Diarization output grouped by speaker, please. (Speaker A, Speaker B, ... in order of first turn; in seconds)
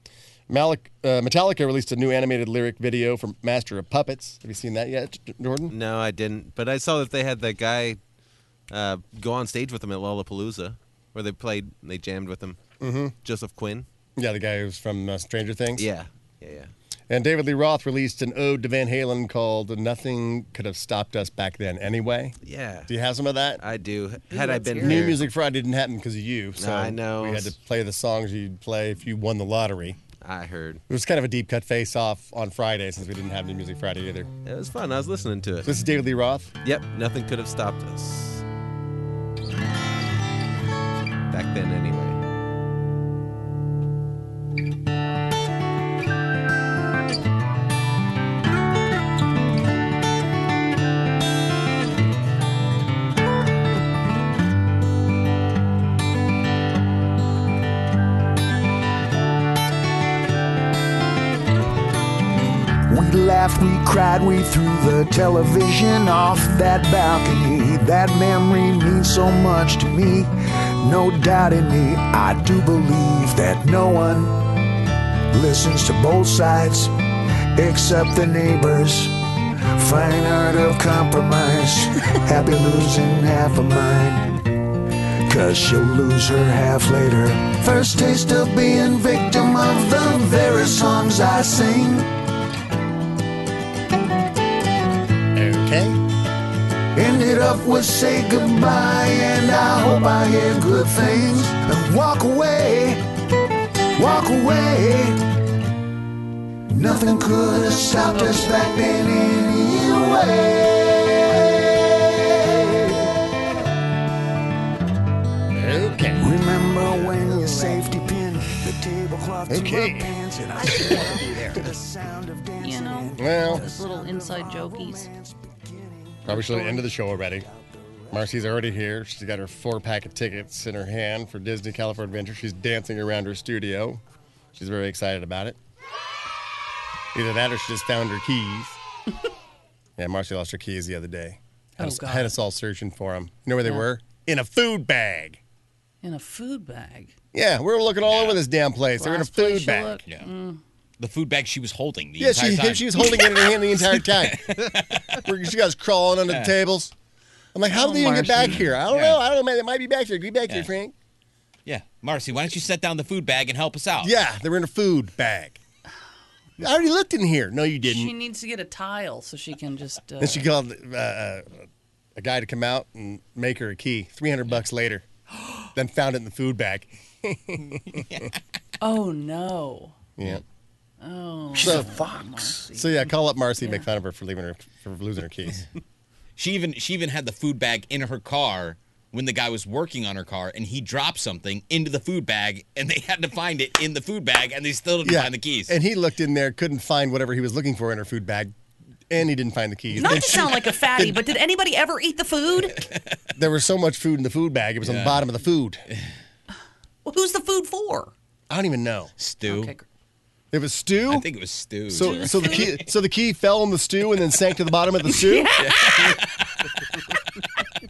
Speaker A: 0.5-5.8, 12.8-13.2, 14.2-15.9, 17.1-23.6, 24.8-30.0, 30.9-34.3, 35.6-36.5, 95.3-96.0, 115.5-116.4, 119.5-121.2, 123.2-123.7, 126.3-127.5, 128.1-134.0, 134.6-135.6, 137.1-138.8, 140.0-145.4, 147.3-150.0, 152.2-156.9, 157.5-160.9, 164.0-165.6, 166.6-168.1, 170.2-171.7, 172.2-175.1, 175.6-178.1, 180.2-180.4, 181.6-181.9, 182.7-185.7, 195.0-198.5, 199.1-201.2, 203.3-205.9, 208.5-209.1, 210.5-211.3, 211.9-215.6
Speaker B: 5.7-8.0, 8.7-12.6, 13.2-13.9, 15.8-16.7, 22.4-22.9, 23.6-25.2, 26.6-27.5, 30.2-30.8, 34.5-35.7, 36.6-38.4, 41.3-42.2
Speaker C: 24.3-25.1, 122.6-125.1, 141.8-142.4, 146.0-147.1, 149.0-150.6, 157.7-158.6, 167.8-170.5, 178.8-179.9, 181.0-183.1, 183.6-183.9, 199.9-202.9, 207.1-208.1, 209.5-209.9, 212.0-212.8, 215.1-216.3
Speaker D: 62.9-74.6, 75.3-76.9, 77.5-79.1, 79.7-84.7, 85.2-92.1, 96.9-103.0, 104.0-105.2, 106.7-113.2, 116.2-126.9, 127.4-128.2, 181.6-182.7
Speaker E: 148.0-148.4, 151.0-155.2, 156.3-156.6, 158.6-159.2, 161.7-164.1, 186.4-195.8, 204.8-205.3, 209.2-209.7, 211.1-212.8, 215.6-216.2